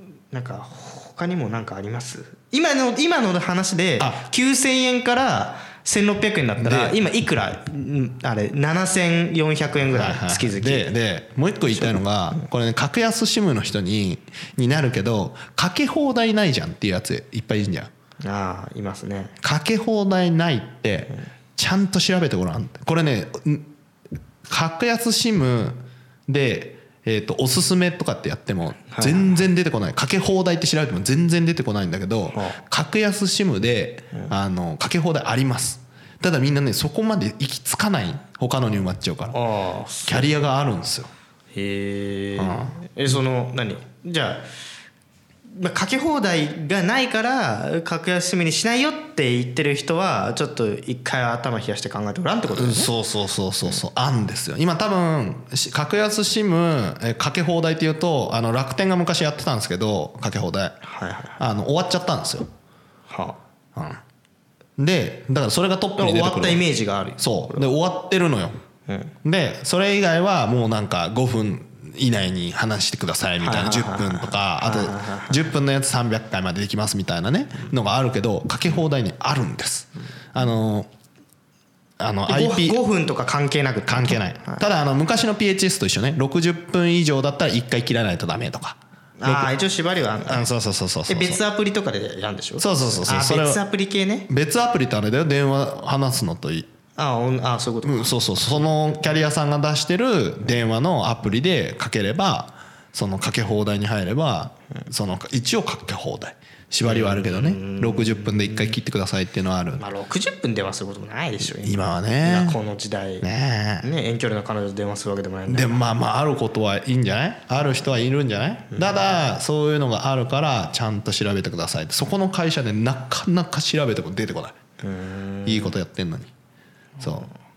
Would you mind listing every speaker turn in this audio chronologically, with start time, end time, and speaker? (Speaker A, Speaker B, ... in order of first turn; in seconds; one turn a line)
Speaker A: 0.3-10.9
Speaker B: 6.6-7.0
Speaker B: 9.9-17.9
Speaker A: 11.7-12.4
Speaker A: 18.2-19.3
Speaker B: 19.4-23.7
Speaker B: 24.5-39.4
Speaker A: 28.9-29.4
Speaker A: 32.3-32.6
Speaker A: 39.3-40.3
Speaker B: 40.0-41.1
Speaker A: 41.5-44.4
Speaker B: 42.4-42.8
Speaker A: 45.5-52.9
Speaker B: 52.5-60.8
Speaker A: 60.8-61.4
Speaker B: 61.4-62.5
Speaker A: 63.1-63.4
Speaker B: 63.8-64.0
Speaker B: 64.8-66.6
Speaker A: 66.0-67.7
Speaker B: 67.2-68.6
Speaker A: 68.9-69.1
Speaker B: 69.2-80.9
Speaker A: 73.4-75.4
Speaker B: 82.0-82.8
Speaker A: 82.3-84.6
Speaker B: 83.9-89.5
Speaker A: 89.2-90.5
Speaker B: 90.2-91.4
Speaker A: 91.1-94.3
Speaker B: 92.6-93.6
Speaker B: 94.3-96.7
Speaker A: 97.0-98.1
Speaker B: 97.8-109.8
Speaker A: 106.8-108.7
Speaker A: 109.8-113.3
Speaker B: 111.5-112.6
Speaker B: 113.2-113.9
Speaker A: 113.8-115.8
Speaker B: 115.5-124.5
Speaker A: 124.8-125.7
Speaker B: 125.4-126.3
Speaker A: 127.0-127.3
Speaker B: 127.0-127.3